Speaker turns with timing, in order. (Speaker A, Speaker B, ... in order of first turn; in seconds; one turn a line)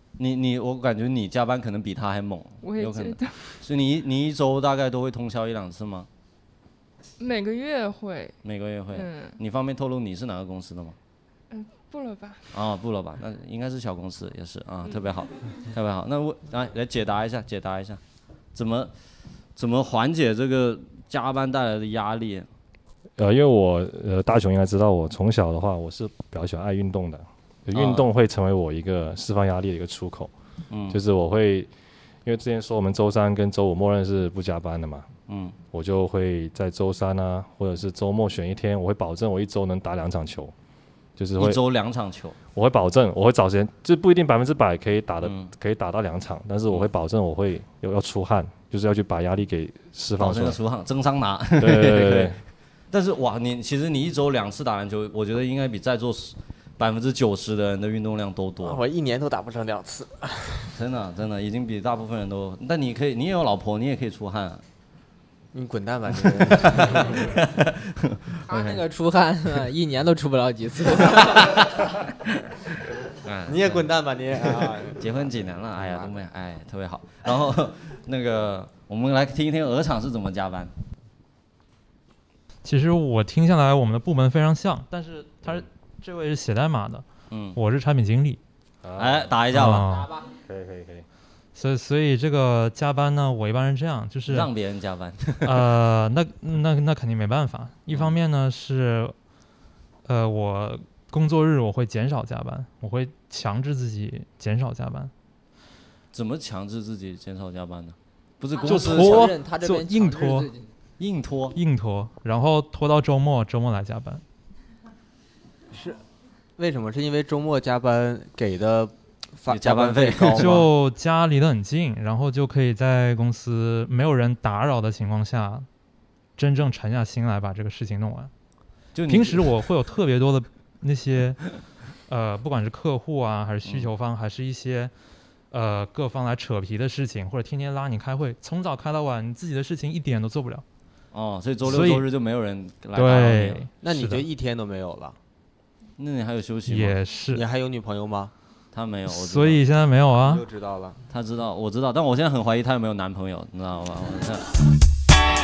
Speaker A: 0.2-6.1
Speaker B: 2.6-3.6
Speaker B: 7.2-8.4
Speaker A: 8.4-10.9
Speaker B: 8.9-9.4
Speaker B: 11.5-12.5
Speaker A: 12.5-18.0
Speaker A: 18.5-18.9
Speaker A: 19.6-22.5
Speaker C: 23.2-30.3
Speaker A: 27.7-28.1
Speaker A: 30.7-31.0
Speaker C: 30.9-31.7
Speaker C: 32.2-35.1
Speaker A: 35.3-35.6
Speaker C: 35.7-40.5
Speaker C: 41.2-41.6
Speaker A: 41.4-42.4
Speaker C: 42.5-50.6
Speaker A: 45.2-45.5
Speaker A: 50.2-52.4
Speaker C: 51.6-52.4
Speaker A: 52.9-58.8
Speaker D: 58.6-60.7
Speaker A: 60.7-64.6
Speaker D: 65.5-67.3
Speaker A: 66.2-68.8
Speaker E: 68.4-71.6
Speaker A: 71.2-71.9
Speaker A: 73.2-80.7
Speaker D: 73.5-76.2
Speaker F: 82.6-88.4
Speaker A: 87.3-87.6
Speaker C: 88.8-89.4
Speaker A: 89.0-89.9
Speaker F: 89.5-90.1
Speaker E: 89.8-90.3
Speaker C: 90.3-91.0
Speaker F: 91.5-94.5
Speaker A: 94.3-95.7
Speaker F: 95.4-99.1
Speaker A: 97.9-98.1
Speaker F: 100.0-105.1
Speaker A: 106.1-109.3
Speaker F: 108.6-110.5
Speaker E: 108.7-110.7
Speaker A: 111.0-111.6
Speaker F: 111.5-114.2
Speaker D: 115.7-116.0
Speaker D: 116.6-120.6
Speaker A: 119.5-120.7
Speaker F: 120.3-125.7
Speaker F: 126.4-128.3
Speaker A: 128.9-129.6
Speaker F: 129.1-131.4
Speaker F: 132.1-134.9
Speaker A: 133.6-133.9
Speaker F: 135.5-140.6
Speaker A: 141.1-143.7
Speaker F: 141.6-142.1
Speaker F: 142.9-144.2
Speaker D: 143.8-145.2
Speaker A: 146.0-147.0
Speaker F: 146.7-147.4
Speaker D: 147.3-148.3
Speaker A: 148.7-149.6
Speaker F: 149.1-150.4
Speaker D: 150.2-151.0
Speaker A: 151.1-154.5